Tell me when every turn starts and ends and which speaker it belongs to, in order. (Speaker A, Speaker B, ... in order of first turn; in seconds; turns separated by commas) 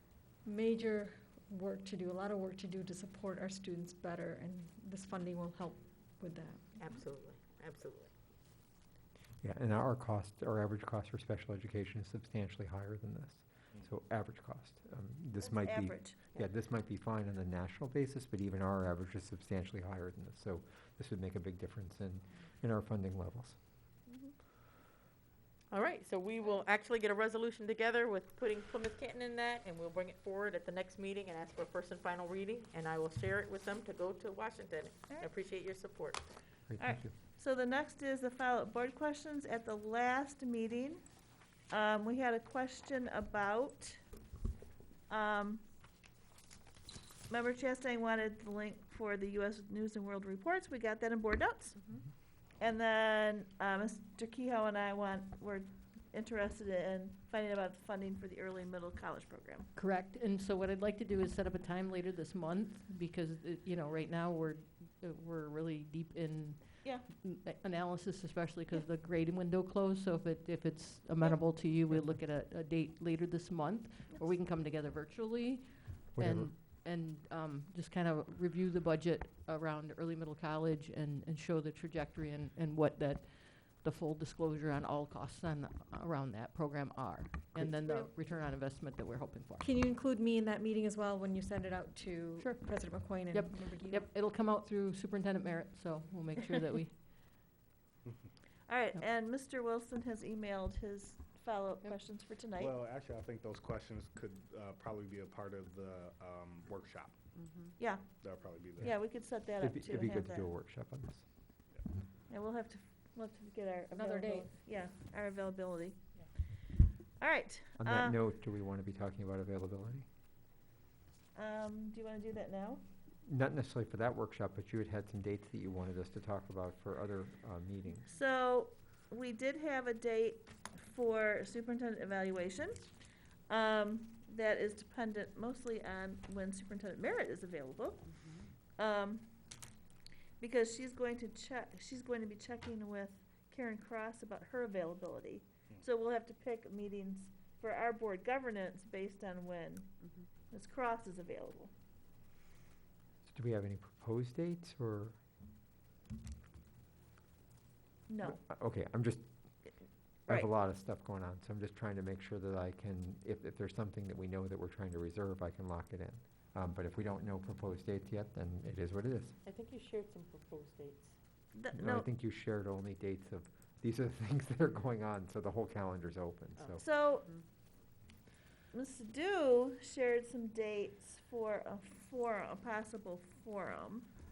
Speaker A: 0.4-6.8, Speaker B: 6.8-8.1, Speaker C: 9.4-23.6, Speaker D: 15.4-16.2, Speaker D: 24.1-24.4, Speaker B: 25.7-36.2, Speaker C: 36.7-37.1, Speaker D: 36.8-41.0, Speaker D: 41.7-44.0, Speaker D: 45.1-45.6, Speaker D: 47.3-52.0, Speaker D: 52.6-59.7, Speaker E: 59.8-89.7, Speaker C: 76.2-76.5, Speaker A: 87.8-88.1, Speaker A: 89.6-94.1, Speaker E: 92.4-97.0, Speaker D: 98.7-102.7, Speaker F: 102.5-107.2, Speaker D: 107.8-108.1, Speaker F: 108.2-108.9, Speaker D: 108.8-110.5, Speaker C: 108.8-111.3, Speaker D: 112.3-116.0, Speaker A: 113.9-114.5, Speaker D: 117.2-118.2, Speaker C: 117.8-120.1, Speaker D: 121.3-122.8, Speaker C: 123.3-128.1, Speaker D: 128.1-132.8, Speaker D: 133.5-139.3, Speaker D: 140.4-151.7, Speaker C: 153.2-155.2, Speaker D: 158.1-158.4, Speaker C: 158.2-169.4, Speaker B: 169.4-171.1, Speaker D: 171.5-172.1, Speaker C: 171.7-176.8, Speaker D: 176.8-177.3, Speaker D: 178.7-184.1